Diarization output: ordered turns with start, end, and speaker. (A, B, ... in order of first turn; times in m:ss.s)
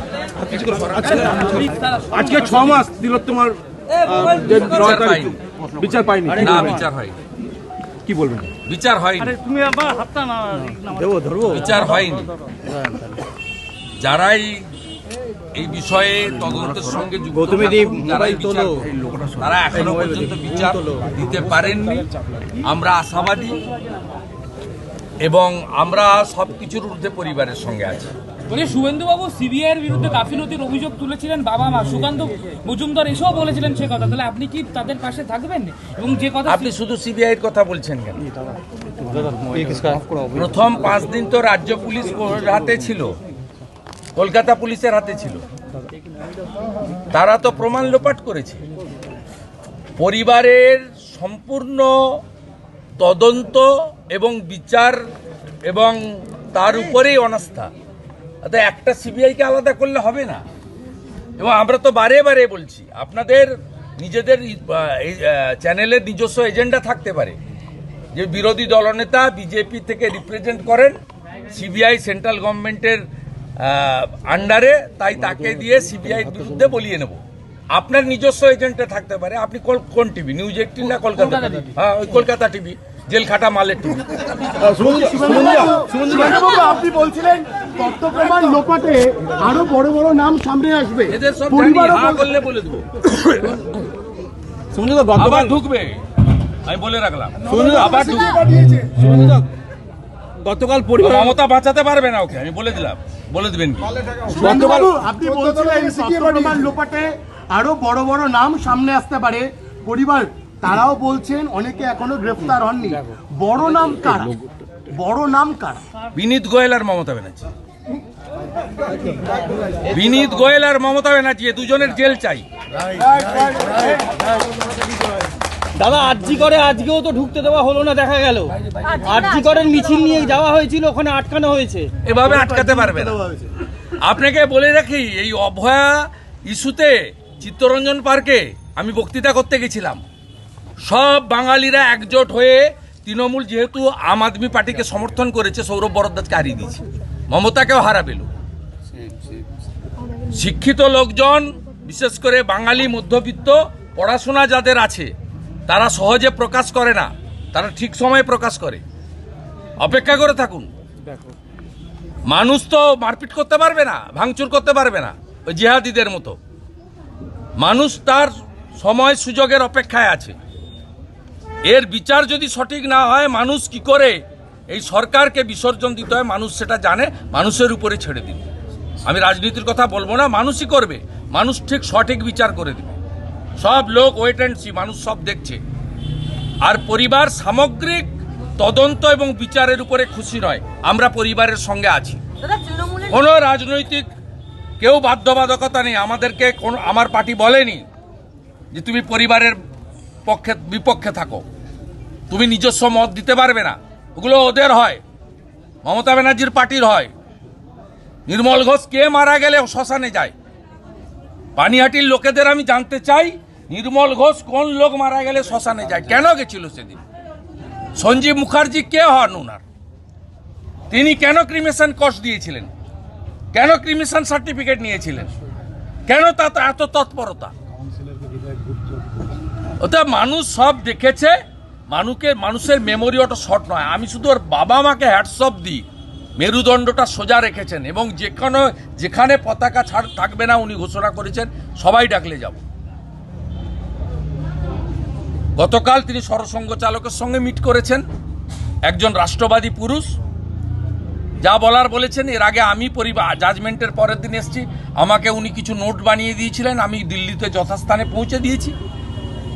0:00.5-0:01.6 A
0:01.1-0:02.8 B
0:02.1-0:03.6 A
0:02.8-0:03.1 C
0:04.1-0:05.2 C
0:04.1-0:04.6 B
0:04.5-0:05.4 D
0:05.8-0:06.4 C
0:05.8-0:06.8 A
0:06.4-0:07.2 D
0:08.2-0:08.4 C
0:08.7-0:09.4 D
0:09.3-0:10.8 B
0:10.6-0:11.7 A
0:11.5-0:12.3 D
0:12.7-0:13.1 A
0:14.0-0:14.6 D
0:15.6-0:22.1 D
0:17.4-0:21.0 A
0:22.6-0:23.6 D
0:25.2-0:28.1 D
0:28.5-0:36.7 B
0:36.5-0:38.2 D
0:39.4-0:40.3 A
0:40.3-0:43.2 D
0:44.2-0:45.4 D
0:47.1-0:48.6 D
0:50.0-0:52.2 D
0:53.0-0:55.0 D
0:55.7-0:57.7 D
0:58.4-1:00.4 D
1:01.4-1:07.4 D
1:08.1-1:11.0 D
1:11.5-1:13.1 D
1:13.6-1:17.2 D
1:17.7-1:24.7 D
1:21.2-1:21.7 B
1:24.6-1:25.7 A
1:24.6-1:32.3 E
1:25.3-1:26.6 D
1:31.1-1:33.0 D
1:34.7-1:35.6 A
1:35.2-1:36.0 D
1:36.6-1:38.4 D
1:37.5-1:37.9 A
1:38.9-1:39.5 A
1:40.4-1:41.3 A
1:41.0-1:44.0 D
1:44.2-1:55.8 E
1:44.3-1:44.7 A
1:45.7-1:46.2 C
1:56.2-1:57.5 D
1:59.9-2:02.5 D
2:05.8-2:11.9 A
2:12.0-2:13.2 D
2:12.3-2:13.5 E
2:14.0-2:20.0 D
2:20.8-2:28.3 D
2:30.2-2:35.1 D
2:35.7-2:38.8 D
2:39.8-2:40.7 D
2:42.3-2:46.4 D
2:47.6-2:50.4 D
2:51.6-2:58.4 D
2:59.0-3:03.0 D
3:03.6-3:05.6 D
3:06.6-3:12.2 D
3:12.9-3:14.1 D
3:14.8-3:17.8 D
3:18.7-3:19.6 D
3:20.2-3:21.4 D
3:22.3-3:25.0 D
3:25.8-3:27.1 D
3:28.3-3:30.3 D
3:31.6-3:37.0 D
3:38.0-3:39.6 D
3:40.9-3:42.7 D
3:43.5-3:45.3 D
3:46.1-3:47.5 D
3:48.2-3:48.9 E
3:49.8-3:51.4 D
3:51.9-3:55.8 D
3:56.4-4:02.6 D
4:05.6-4:08.0 D
4:08.9-4:10.2 D
4:11.4-4:18.8 D